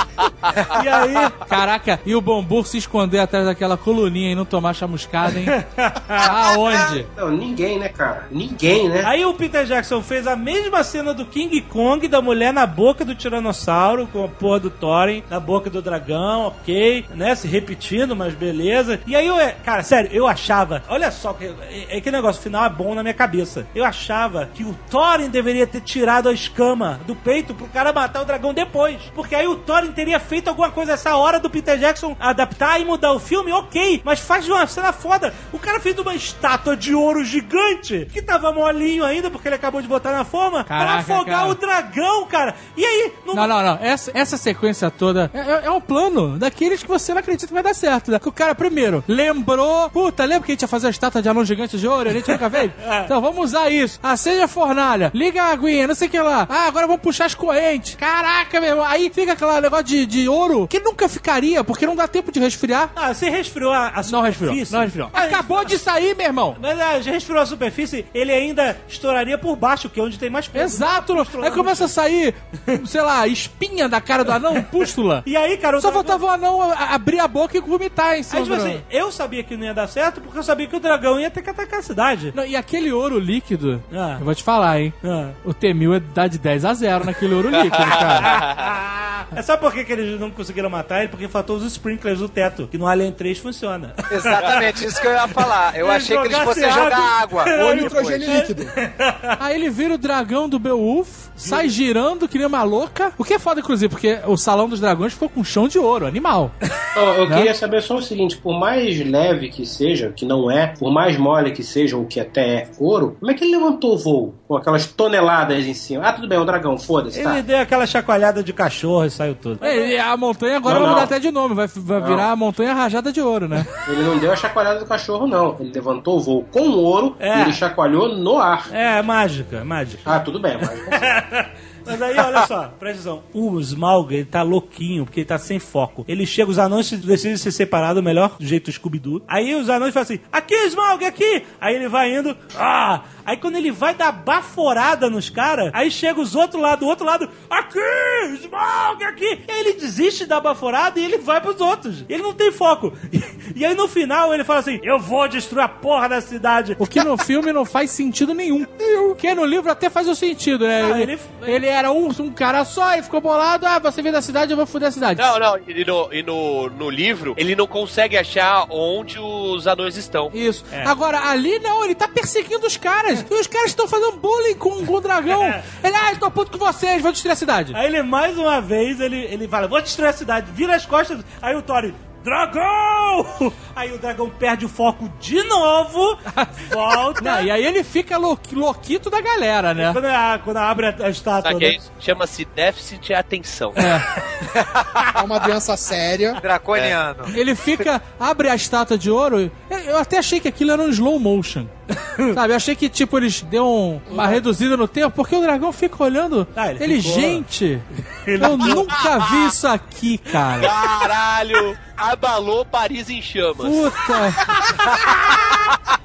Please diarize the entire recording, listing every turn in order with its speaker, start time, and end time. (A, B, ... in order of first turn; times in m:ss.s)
0:00.7-0:01.4 A
0:01.5-0:05.6 B
0:05.3-0:06.4 A
0:06.2-0:07.1 B
0:06.8-0:09.1 C
0:09.0-0:43.6 A
0:40.7-0:41.6 B
0:43.3-1:02.9 B
0:52.2-0:53.1 A
1:02.9-1:05.8 A
1:04.1-1:06.6 B
1:06.5-1:11.9 A
1:10.5-1:15.3 B
1:14.5-1:16.2 A
1:15.8-1:18.8 B
1:18.3-1:22.3 A
1:22.3-1:28.4 B
1:23.9-1:24.2 A
1:25.0-1:25.4 A
1:27.6-1:28.4 D
1:27.8-1:39.4 A
1:34.1-1:38.4 E
1:37.4-1:38.7 F
1:39.4-1:46.5 B
1:41.4-1:41.7 A
1:46.9-1:57.4 C
1:57.1-1:59.9 A
1:59.6-2:03.7 B
2:00.6-2:01.1 C
2:02.0-2:02.2 C
2:03.8-2:08.7 C
2:07.2-2:07.6 A
2:08.7-2:10.1 A
2:10.1-2:11.1 C
2:10.9-2:37.0 A
2:36.8-2:45.2 B
2:38.8-2:39.2 F
2:40.8-2:41.6 A
2:45.2-2:50.3 D
2:50.3-2:57.8 B
2:55.3-2:55.7 A
2:57.7-3:07.5 A
3:06.3-3:06.6 B
3:07.2-3:10.0 B
3:09.8-3:11.8 A
3:11.4-3:13.8 D
3:13.8-3:14.0 B
3:15.1-3:16.4 F
3:16.4-3:17.8 E
3:17.3-3:21.7 B
3:21.9-3:22.4 A
3:22.3-3:27.8 B
3:24.1-3:24.4 A
3:26.5-3:27.5 A
3:28.1-3:29.0 A
3:28.4-3:30.7 B
3:30.6-3:33.9 D
3:33.6-3:34.5 B
3:34.9-3:35.5 A